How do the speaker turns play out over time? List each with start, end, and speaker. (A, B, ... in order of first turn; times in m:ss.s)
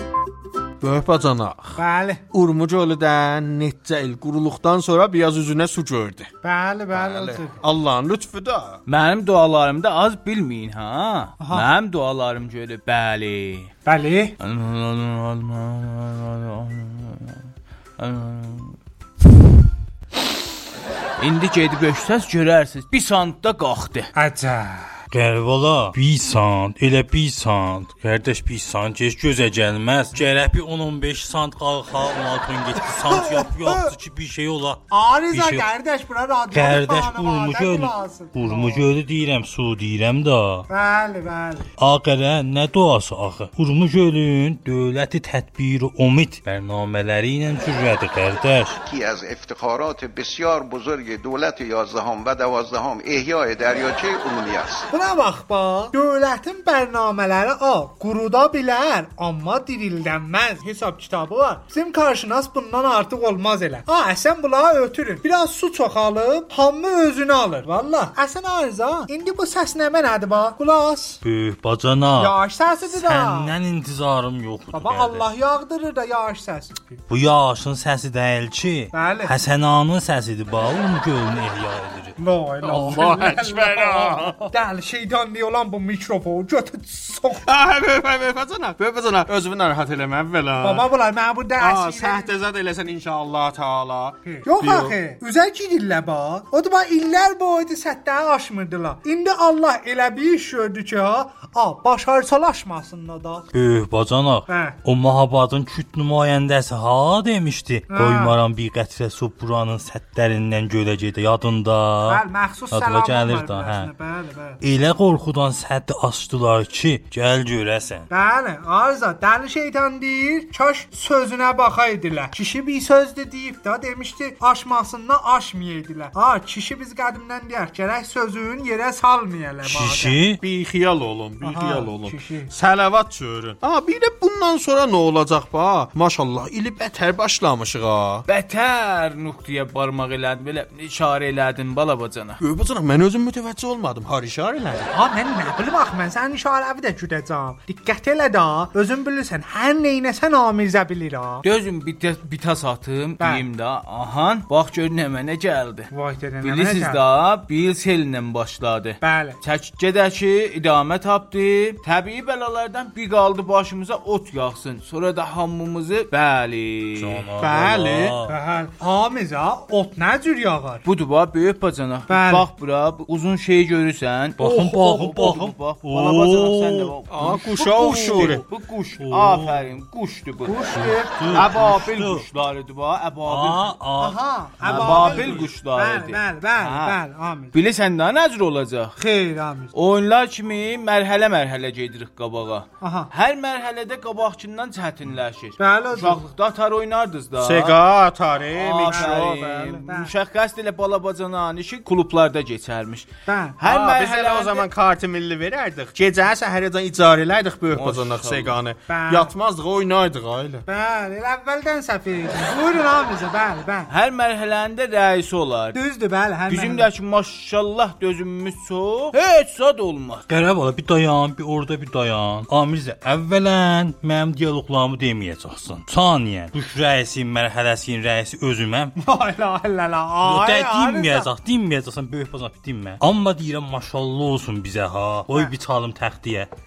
0:00.8-0:01.8 A
0:01.8-0:02.2 B
0:02.3-0:06.3 A
0:06.4-0:07.6 B
0:06.9-0:08.8 A
0:08.9-0:13.7 C
0:11.4-0:11.7 B
0:13.9-0:14.3 B
0:14.4-0:17.4 C
0:18.0-0:18.7 C
0:21.2-0:24.1 C
0:24.1-0:24.9 B
0:25.1-0:35.6 D
0:33.0-0:33.9 B
0:34.9-0:38.9 B
0:36.5-0:40.6 D
0:40.7-0:41.7 B
0:41.8-0:48.8 D
0:48.8-0:54.9 E
0:54.9-1:11.2 B
1:11.2-1:15.2 D
1:12.2-1:13.5 B
1:14.7-1:17.0 B
1:17.1-1:22.2 D
1:18.9-1:19.3 B
1:22.2-1:27.4 B
1:22.7-1:23.1 D
1:22.8-1:24.5 A
1:27.4-1:30.9 A
1:30.6-1:32.3 B
1:31.6-1:35.0 A
1:34.2-1:43.5 B
1:43.5-1:53.9 D
1:44.5-1:44.8 B
1:47.9-1:48.4 B
1:52.0-1:54.6 B
1:54.6-1:58.1 D
1:58.1-2:10.2 B
2:09.6-2:10.4 D
2:10.4-2:18.2 A
2:11.4-2:12.5 B
2:18.3-2:22.4 C
2:22.4-2:24.9 A
2:24.9-2:31.4 B
2:31.4-2:35.9 C
2:35.9-2:37.0 B
2:36.4-2:47.2 C
2:39.0-2:39.4 B
2:47.0-2:48.3 D
2:47.4-2:48.2 A
2:48.3-2:50.8 B
2:50.8-3:00.6 C
2:52.1-2:52.5 B
2:54.4-2:56.9 D
2:57.1-2:58.4 A
2:59.0-2:59.6 D
3:00.4-3:01.4 B
3:00.7-3:02.2 D
3:01.3-3:03.7 C
3:03.2-3:05.4 D
3:04.0-3:07.6 B
3:04.6-3:07.0 C
3:07.5-3:09.0 C
3:09.0-3:09.7 B
3:09.7-3:17.8 C
3:12.8-3:13.1 B
3:15.6-3:16.2 B
3:17.4-3:19.7 A
3:18.5-3:24.6 C
3:18.9-3:20.1 B
3:23.3-3:23.6 B
3:23.6-3:30.6 A
3:27.7-3:28.6 C
3:28.9-3:29.3 B
3:30.7-3:33.9 B
3:33.9-3:35.8 C
3:35.7-3:36.9 B
3:36.5-3:40.2 C
3:40.3-3:48.9 D
3:49.0-3:51.3 B
3:50.2-3:56.5 D